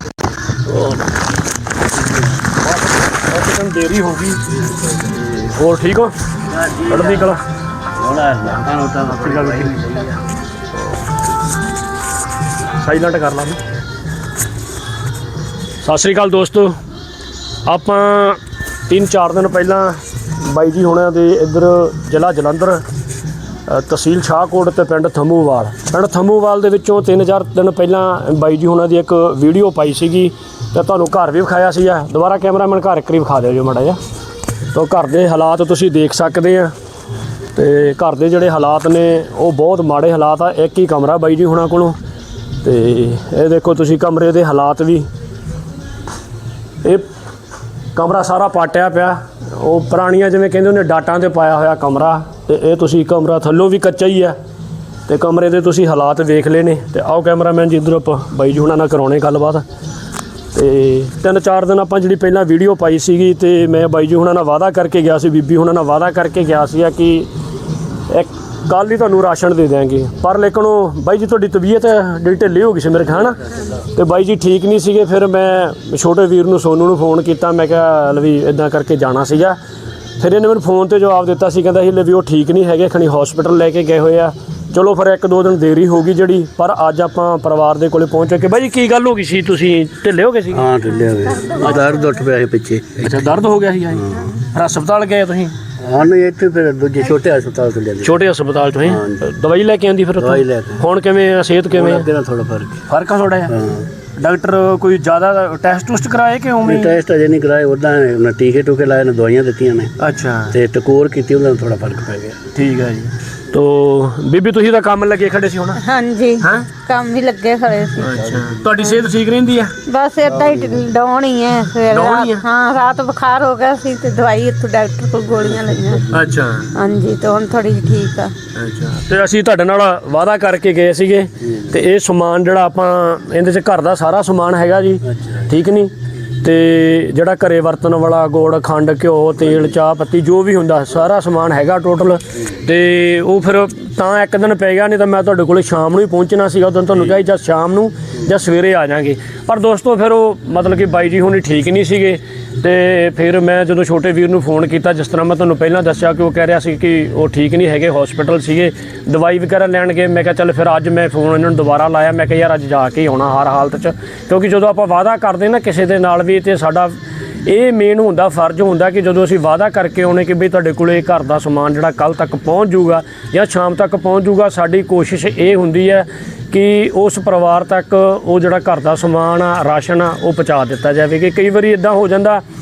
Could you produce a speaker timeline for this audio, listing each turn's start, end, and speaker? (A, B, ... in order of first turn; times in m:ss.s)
0:00.7-0:01.0 A
0:02.6-0:04.4 B
0:05.2-0:06.1 B
0:06.5-0:07.3 A
0:06.9-0:07.4 B
0:07.9-0:10.2 A
0:09.0-0:09.7 B
0:12.8-0:13.6 B
0:15.8-0:16.7 B
0:17.6-0:22.8 B
0:23.7-0:34.0 B
0:34.7-0:36.7 B
0:37.5-0:42.0 B
0:42.6-0:45.0 B
0:47.9-0:54.3 B
0:55.0-0:59.6 B
1:00.5-1:07.3 B
1:08.1-1:19.6 B
1:20.2-1:30.7 B
1:30.5-1:33.2 A
1:33.0-1:35.5 B
1:35.8-1:38.1 A
1:38.0-1:42.1 B
1:38.8-1:39.2 A
1:40.2-1:40.8 A
1:41.7-1:42.8 A
1:42.9-1:43.5 B
1:43.5-1:43.8 A
1:44.2-1:47.0 B
1:46.6-1:49.9 A
1:50.0-1:50.6 B
1:50.5-1:52.4 A
1:52.5-1:55.8 B
1:55.8-1:58.1 C
1:56.4-1:56.8 B
1:58.0-1:59.7 B
1:59.8-2:06.1 C
2:01.9-2:02.4 B
2:06.1-2:06.7 B
2:06.7-2:08.3 C
2:08.5-2:46.9 B
2:47.4-3:02.4 B